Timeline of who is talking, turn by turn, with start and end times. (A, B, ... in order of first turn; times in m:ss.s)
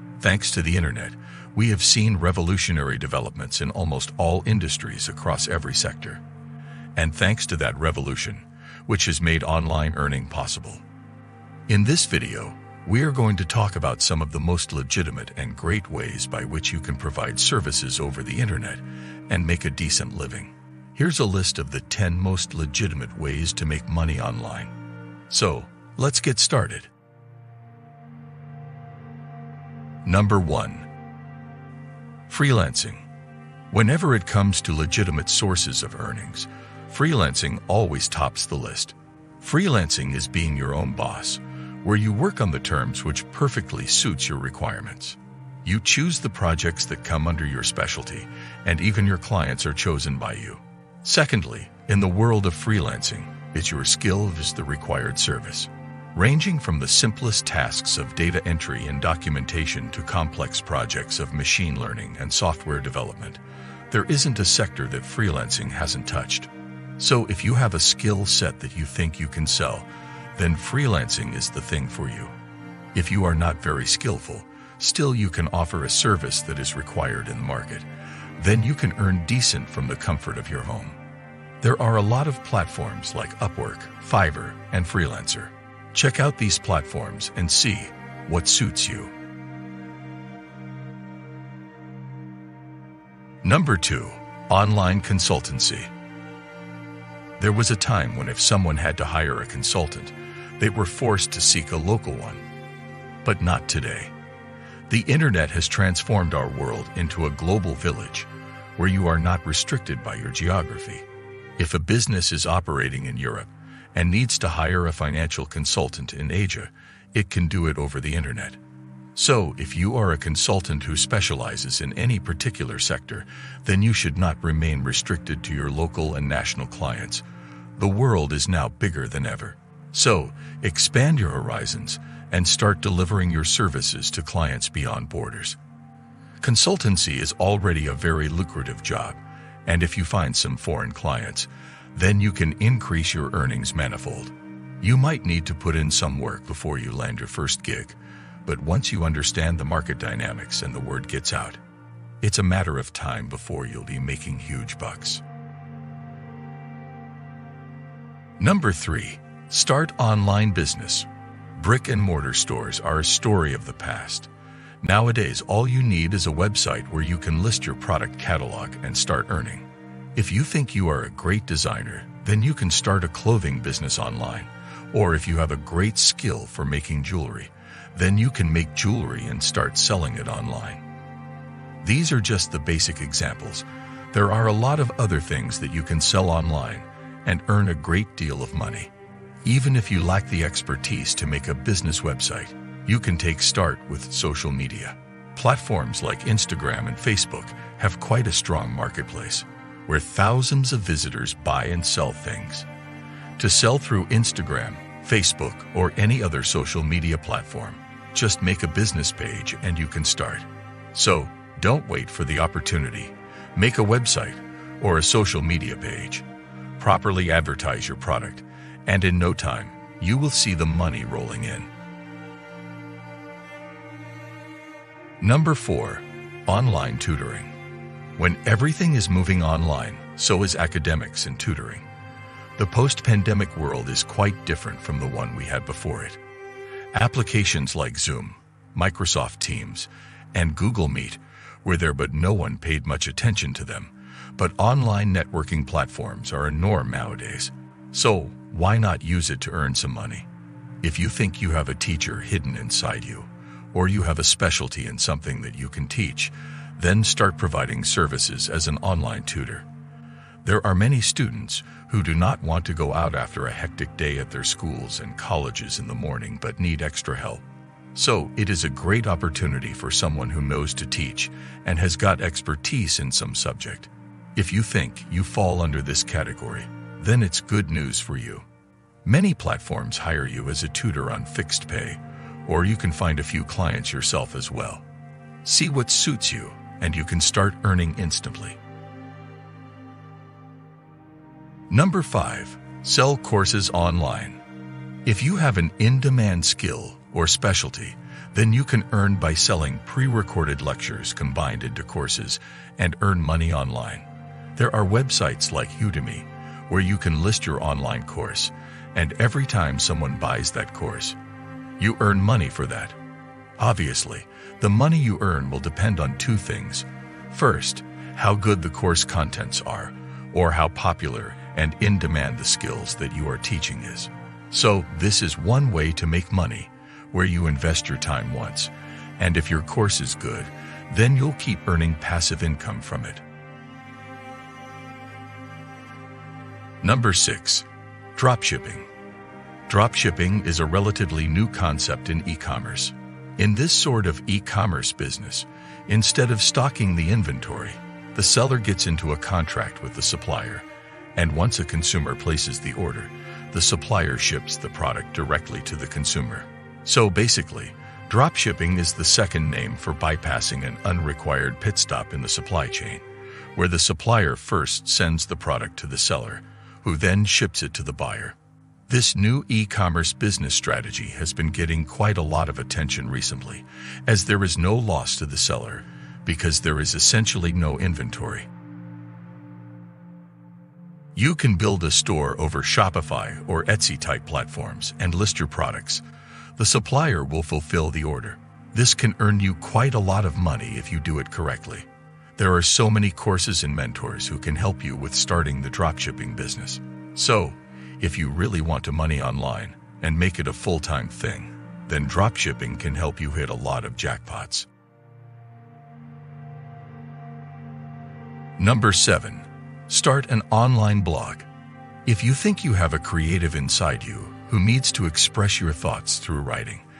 0:00.2-0:06.2 A
0:07.0-0:10.8 A
0:11.7-0:24.7 A
0:25.3-0:26.9 A
0:30.0-0:30.9 A
0:32.3-0:33.1 A
0:33.7-1:12.4 A
1:12.9-1:21.0 A
1:21.6-1:29.1 A
1:33.4-1:35.9 A
1:37.4-1:42.4 A
1:43.2-1:44.1 A
1:44.9-1:51.1 A
1:51.6-1:58.6 A
1:59.2-2:07.2 A
2:07.8-2:15.6 A
2:16.4-2:31.6 A
2:32.2-2:35.2 A
2:38.4-2:44.3 A
2:44.8-3:00.8 A
3:01.8-3:08.9 A
3:09.4-3:22.7 A
3:23.4-3:36.3 A
3:36.8-3:41.7 A
3:45.2-3:47.6 A
3:48.2-3:51.9 A
3:52.6-3:56.2 A
3:56.9-4:10.3 A
4:10.8-4:19.7 A
4:20.4-4:27.4 A
4:28.0-4:38.4 A
4:39.0-4:44.8 A
4:45.4-4:48.6 A
4:51.7-4:54.4 A
4:55.0-5:11.2 A
5:11.8-5:13.0 A
5:13.6-5:33.2 A
5:36.8-5:38.9 A
5:39.7-6:03.0 A
6:03.6-6:08.4 A
6:08.9-6:18.5 A
6:21.2-6:26.0 A
6:26.6-6:44.7 A
6:48.6-6:51.5 A
6:52.1-6:56.8 A